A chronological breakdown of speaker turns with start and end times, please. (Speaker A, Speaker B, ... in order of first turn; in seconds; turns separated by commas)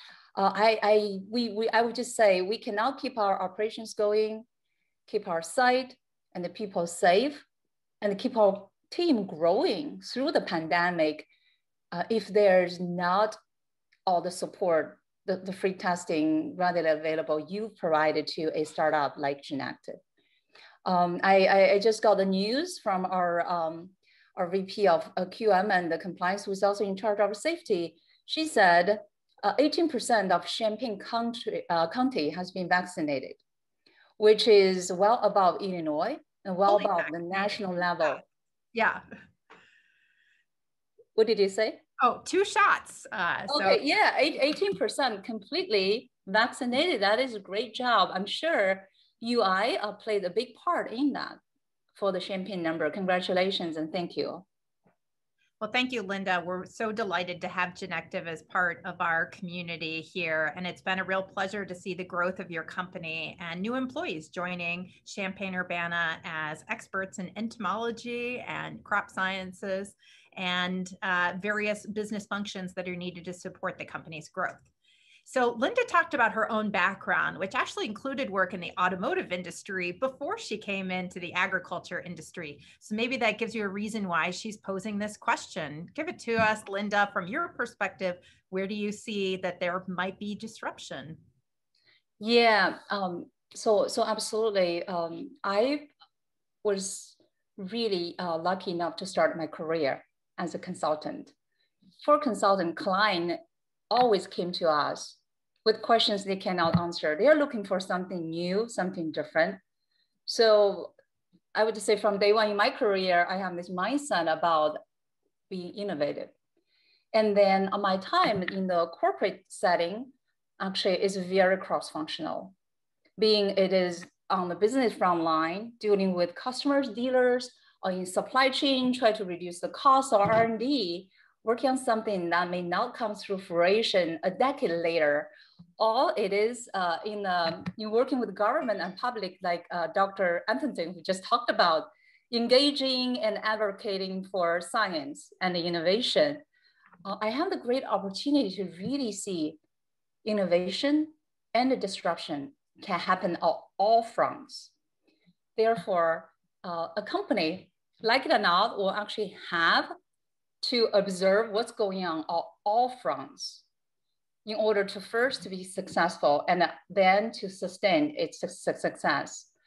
Speaker A: 0.4-4.5, Speaker A: 5.1-7.5, Speaker A: 8.0-11.3, Speaker A: 11.9-13.4, Speaker A: 14.1-20.0, Speaker A: 20.9-33.4, Speaker A: 34.2-38.2, Speaker B: 36.7-37.1, Speaker B: 38.7-39.0, Speaker A: 41.2-41.8, Speaker B: 42.0-43.8, Speaker A: 43.5-51.4, Speaker A: 52.0-54.5, Speaker B: 55.6-74.7, Speaker B: 75.3-91.2, Speaker A: 92.2-95.9, Speaker A: 96.6-101.3, Speaker A: 102.0-103.4, Speaker A: 103.9-109.6, Speaker A: 110.3-110.9, Speaker A: 111.5-114.8, Speaker A: 115.5-116.3, Speaker A: 117.1-122.5, Speaker A: 123.2-146.4, Speaker A: 147.1-149.6, Speaker A: 150.2-154.7, Speaker A: 155.6-159.9, Speaker A: 160.6-163.6, Speaker A: 164.4-169.5